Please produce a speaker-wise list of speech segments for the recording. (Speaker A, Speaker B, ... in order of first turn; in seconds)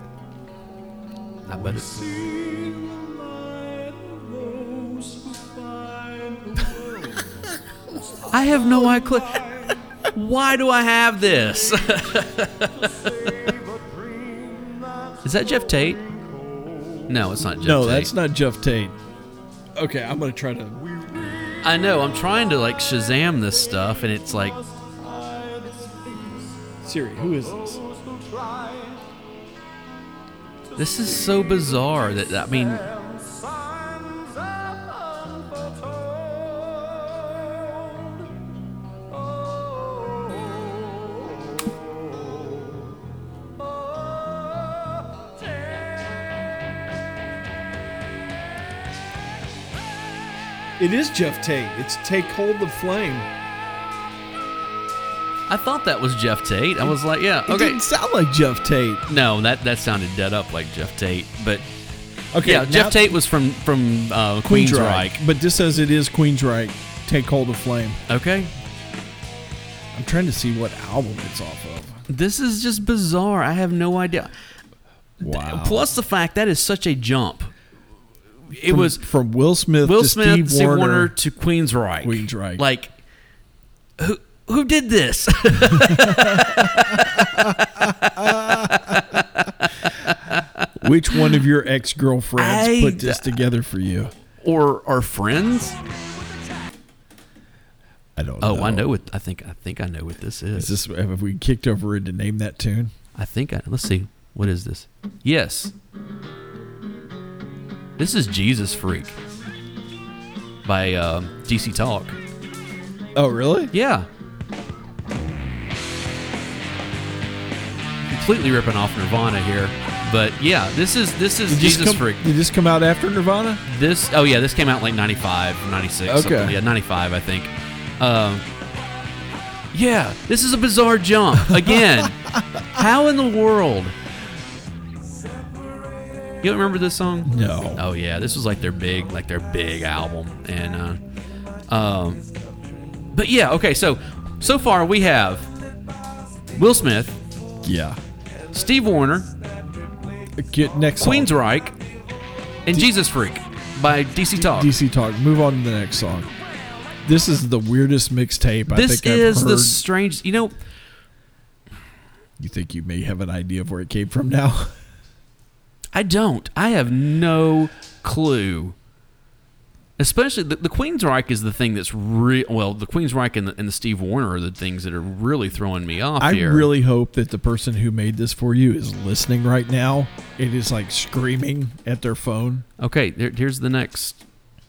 Speaker A: 1.5-2.2, 8.3-9.5, 10.1-13.1, 15.2-16.0, 17.1-18.1, 21.6-24.6, 30.8-32.9, 55.5-57.8, 59.1-61.7, 62.4-65.2, 68.1-68.5, 72.1-74.3, 75.2-77.5, 78.5-79.0, 79.8-82.9, 84.0-91.3, 92.4-93.4, 94.4-95.8, 98.4-100.8, 103.2-105.7, 108.0-109.2, 110.7-112.2, 113.7-114.1, 118.1-122.2, 123.7-128.5, 129.7-134.0, 136.4-141.0, 141.7-142.2, 143.1-145.5, 146.5-147.2, 148.5-149.3, 151.0-151.8, 152.7-154.7, 158.7-160.6, 165.9-168.8, 170.0-176.7, 182.8-184.2
Speaker B: 1.6-9.9, 11.4-17.1, 20.9-21.8, 24.6-26.7, 27.2-29.1, 30.8-31.6, 32.3-38.5, 39.1-42.8, 43.8-45.9, 135.0-136.4, 141.9-143.1, 149.1-150.5, 156.5-157.0
Speaker C: 17.6-19.0, 19.8-20.8, 26.8-27.8, 50.8-53.3, 56.8-59.0, 62.3-63.1, 64.4-68.0, 69.9-72.0, 75.2-75.9, 78.6-81.1, 82.0-82.6, 85.6-89.2, 90.8-94.1, 98.2-98.9, 100.5-102.9, 113.2-113.7, 121.5-123.6, 126.1-126.6, 137.2-137.8, 147.6-148.0, 150.3-151.3, 154.4-156.3, 157.1-159.8, 162.4-164.8, 176.2-182.7